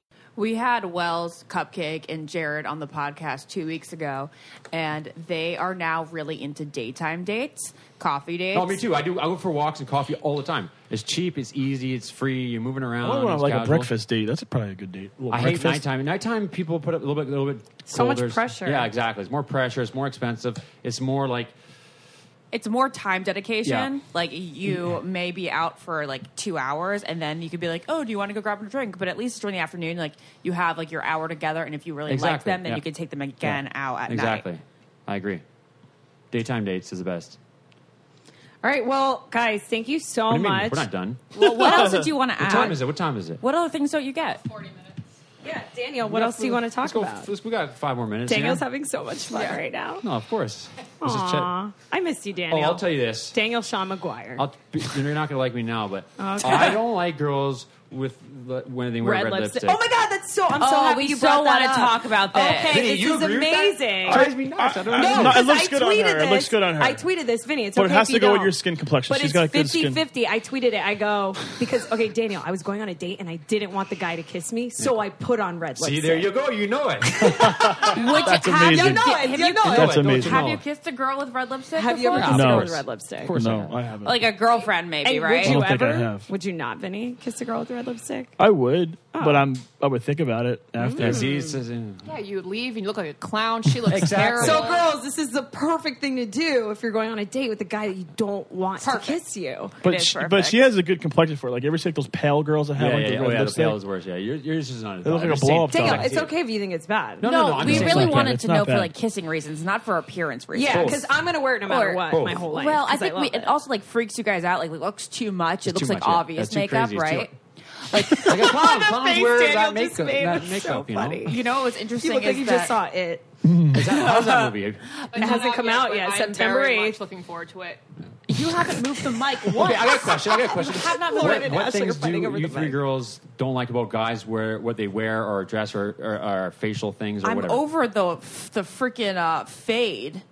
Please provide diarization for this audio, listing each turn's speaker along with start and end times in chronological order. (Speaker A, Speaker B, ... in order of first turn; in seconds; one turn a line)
Speaker A: 0.3-8.8
Speaker B: 8.5-13.9
Speaker C: 13.0-15.8
Speaker B: 15.3-21.5
Speaker D: 17.9-18.9
Speaker A: 22.5-34.5
Speaker B: 23.6-23.9
Speaker B: 32.1-32.8
Speaker B: 33.4-35.4
Speaker B: 36.3-37.4
Speaker D: 38.6-40.9
Speaker B: 40.3-41.3
Speaker A: 41.3-42.9
Speaker C: 41.4-42.0
Speaker B: 42.4-43.4
Speaker A: 43.4-44.4
Speaker E: 44.5-45.0
Speaker D: 45.4-47.3
Speaker B: 46.0-48.6
Speaker D: 48.2-50.0
Speaker A: 49.3-49.6
Speaker B: 50.0-51.5
Speaker D: 51.0-54.5
Speaker B: 52.5-53.4
Speaker B: 54.4-59.8
Speaker D: 56.2-56.8
Speaker D: 59.0-64.3
Speaker A: 60.5-62.8
Speaker B: 62.6-65.5
Speaker C: 64.1-67.0
Speaker D: 64.9-76.3
Speaker C: 67.7-70.0
Speaker B: 75.8-78.0
Speaker C: 77.2-79.1
Speaker A: 77.7-82.6
Speaker E: 78.0-78.3
Speaker D: 78.3-80.0
Speaker C: 79.6-80.5
Speaker B: 79.7-80.6
Speaker D: 81.8-83.3
Speaker B: 82.1-83.7
Speaker C: 82.2-84.2
Speaker A: 84.0-85.6
Speaker D: 85.0-88.3
Speaker C: 85.4-86.2
Speaker C: 88.4-91.3
Speaker D: 89.1-89.5
Speaker D: 90.8-91.5
Speaker B: 91.0-92.1
Speaker E: 92.0-94.8
Speaker B: 93.9-94.8
Speaker D: 94.3-99.7
Speaker E: 98.8-99.2
Speaker C: 99.8-103.8
Speaker A: 99.8-100.6
Speaker B: 102.8-106.3
Speaker C: 105.0-106.2
Speaker D: 105.7-107.3
Speaker B: 107.2-108.4
Speaker A: 107.2-111.0
Speaker C: 107.6-108.9
Speaker D: 110.5-113.5
Speaker B: 110.6-111.1
Speaker A: 111.7-117.3
Speaker B: 112.1-112.5
Speaker B: 115.7-117.3
Speaker A: 117.9-118.5
Speaker B: 118.2-121.4
Speaker D: 118.4-121.4
Speaker A: 121.2-122.7
Speaker D: 122.0-124.5
Speaker C: 123.5-123.8
Speaker B: 123.7-124.8
Speaker A: 125.0-125.4
Speaker E: 125.1-127.8
Speaker D: 125.1-127.0
Speaker A: 128.3-131.6
Speaker B: 129.5-137.6
Speaker D: 131.0-132.8
Speaker A: 137.2-140.2